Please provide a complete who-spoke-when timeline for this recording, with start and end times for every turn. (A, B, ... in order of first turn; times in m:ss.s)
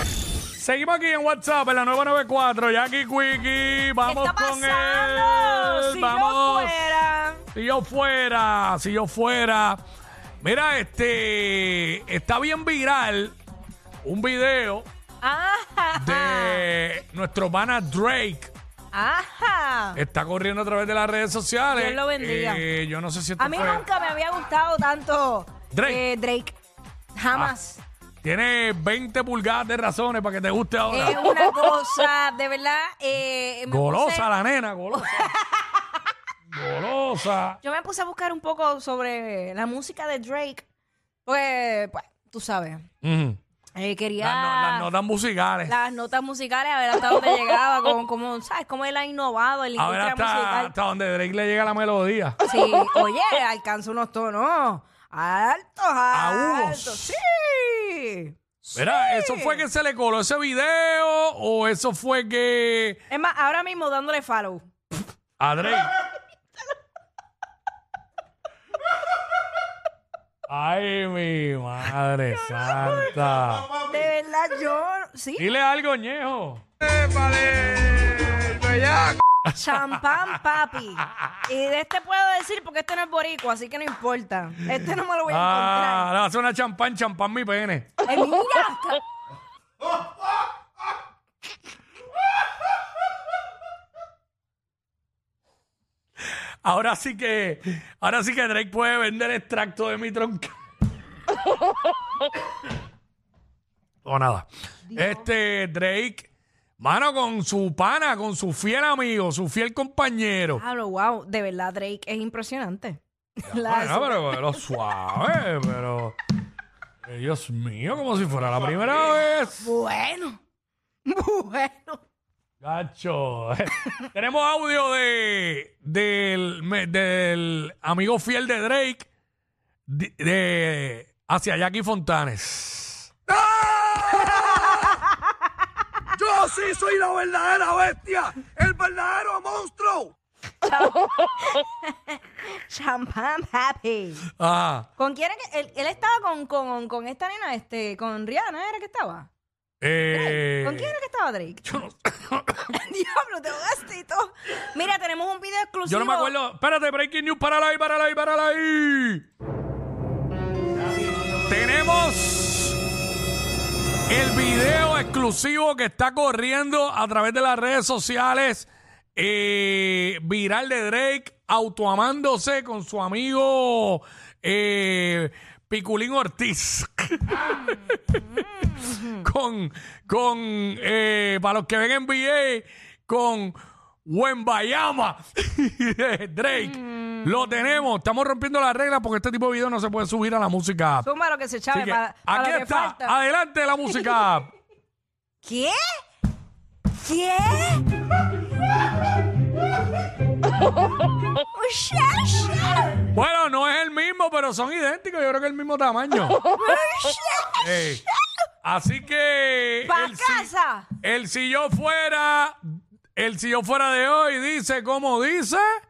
0:00.6-0:06.9 A
0:04.0-0:07.4 B
0:07.5-0:09.8 A
0:10.4-0:13.4 A
0:14.0-0:14.9 A
0:15.2-0:16.6 B
0:16.0-0:18.5 A
0:18.9-0:20.0 B
0:20.0-0:23.8 A
0:21.7-0:22.6 B
0:23.4-0:26.6 B
0:25.7-0:26.0 A
0:27.1-0:27.8 B
0:28.2-0:31.2 A
0:30.9-0:34.3 B
0:33.7-0:35.3 A
0:35.0-0:35.8 B
0:36.5-0:37.6 A
0:37.6-0:40.6 B
0:41.2-0:42.9 B
0:43.0-0:43.4 A
0:43.7-0:44.9 B
0:44.2-0:45.8 A
0:45.7-0:50.7 B
0:49.8-0:52.4 A
0:52.4-0:59.6 B
0:56.1-0:57.2 A
0:58.7-1:03.0 A
1:03.1-1:04.7 B
1:05.4-1:05.9 A
1:10.5-1:13.7 A
1:13.8-1:15.4 B
1:15.4-1:20.4 A
1:19.6-1:26.1 B
1:25.3-1:28.0 A
1:28.0-1:29.0 B
1:36.6-1:40.6 A
1:44.0-1:46.3 A
1:44.9-1:45.2 B
1:46.8-1:50.6 A
1:50.6-1:54.6 B
1:53.5-1:56.2 A
1:57.0-1:59.7 A
1:59.6-2:00.4 B
2:01.1-2:02.0 B
2:02.6-2:09.1 A
2:09.9-2:15.0 A
2:14.2-2:15.2 B
2:16.2-2:20.1 A
2:20.6-2:24.3 B
2:24.4-2:24.9 A
2:25.0-2:29.3 B
2:29.8-2:30.9 A
2:30.1-2:31.7 B
2:31.7-2:32.6 A
2:32.7-2:36.3 B
2:35.8-2:39.2 A
2:41.5-2:42.8 A
2:44.1-3:11.1 A
2:58.4-2:59.1 B
3:06.5-3:07.5 B
3:11.0-3:13.1 B
3:11.7-3:14.5 A
3:15.4-3:16.0 B
3:17.0-3:17.8 B
3:21.4-3:22.6 B
3:23.1-3:26.4 A
3:26.4-3:27.9 B
3:27.6-3:28.1 A
3:28.6-3:30.5 A
3:29.8-3:30.9 B
3:31.0-3:35.7 A